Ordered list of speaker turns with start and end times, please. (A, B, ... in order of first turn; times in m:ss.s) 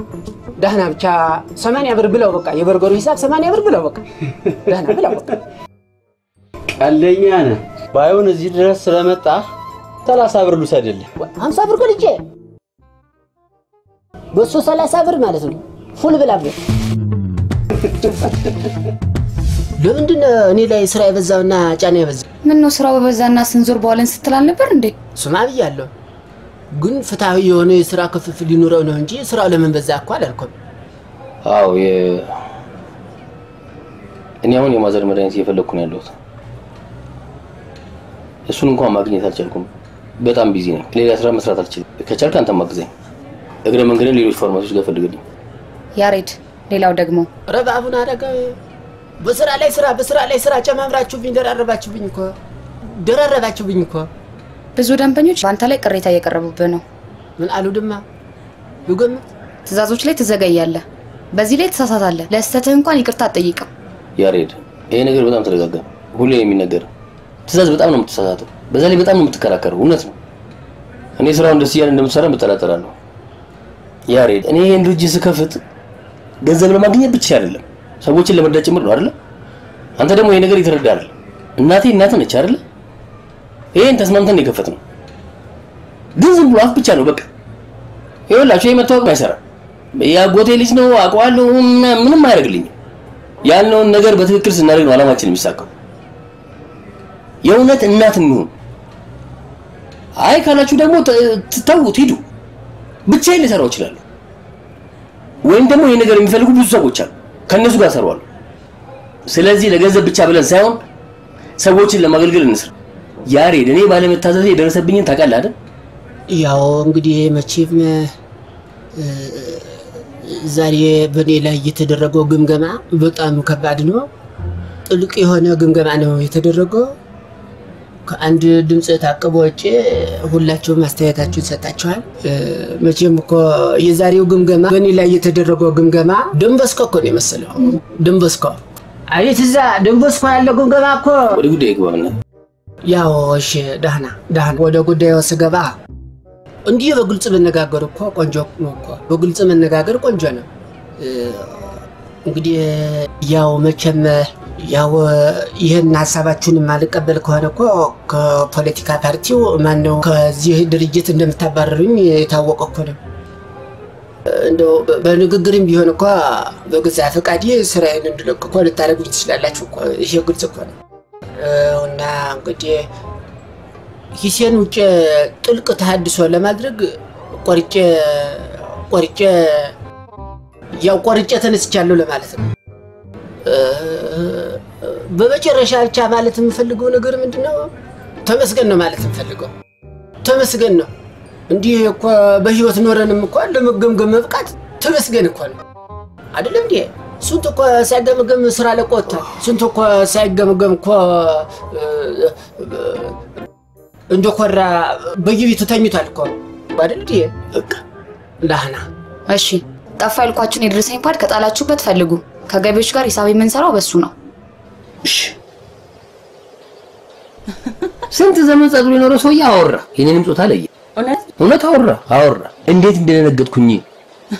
0:00.6-0:04.0 A
0:04.6-0:05.3 A
0:06.8-0:09.4 B
0:10.0-0:11.1 B
0:11.3-0:12.2 A
0:14.3-0:16.6 A
0:19.8-0:22.2 A
0:22.4-0:24.9 C
0:25.2-0:25.9 A
0:26.7-0:30.5 A
0:31.4-0:32.4 D
0:34.4-0:36.2 D
0:38.5-0:42.9 D
0:43.6-0:45.2 D
0:46.0-0:47.3 C
0:47.5-0:48.6 A
0:49.2-0:52.3 A
0:52.9-0:54.1 A
0:54.8-0:56.8 C
0:57.4-0:58.0 A
0:58.9-0:59.2 A
0:59.7-1:03.7 C
1:04.2-1:06.9 D
1:07.5-1:10.2 D
1:11.2-1:12.9 D
1:14.1-1:15.6 D
1:16.4-1:19.1 D
1:20.0-1:22.6 D
1:23.7-1:24.8 D
1:26.2-1:27.3 D
1:28.3-1:29.4 D
1:29.9-1:32.7 D
1:33.4-1:35.7 D
1:37.4-1:38.5 D
1:40.2-1:42.2 D
1:43.1-1:44.0 D
1:45.4-1:48.2 D
1:49.3-1:50.8 D
1:51.6-1:52.7 D
1:53.2-1:55.5 D
1:56.3-1:58.1 A
1:59.0-2:04.1 A
2:04.9-2:06.9 A
2:08.1-2:18.6 A
2:19.1-2:21.4 A
2:21.3-2:22.2 D
2:22.8-2:25.7 A
2:26.6-2:30.4 A
2:31.0-2:43.0 A
2:44.2-2:50.7 A
2:51.4-2:52.9 A
2:54.1-2:59.7 A
3:00.8-3:02.5 A
3:03.4-3:07.7 A
3:08.2-3:09.5 A
3:10.2-3:10.9 A
3:11.5-3:15.6 A
3:16.3-3:23.2 A
3:24.1-3:27.3 A
3:27.5-3:27.8 D
3:28.4-3:28.8 A
3:29.3-3:34.1 C
3:35.0-3:35.3 D
3:38.1-3:40.7 D
3:41.4-3:43.8 D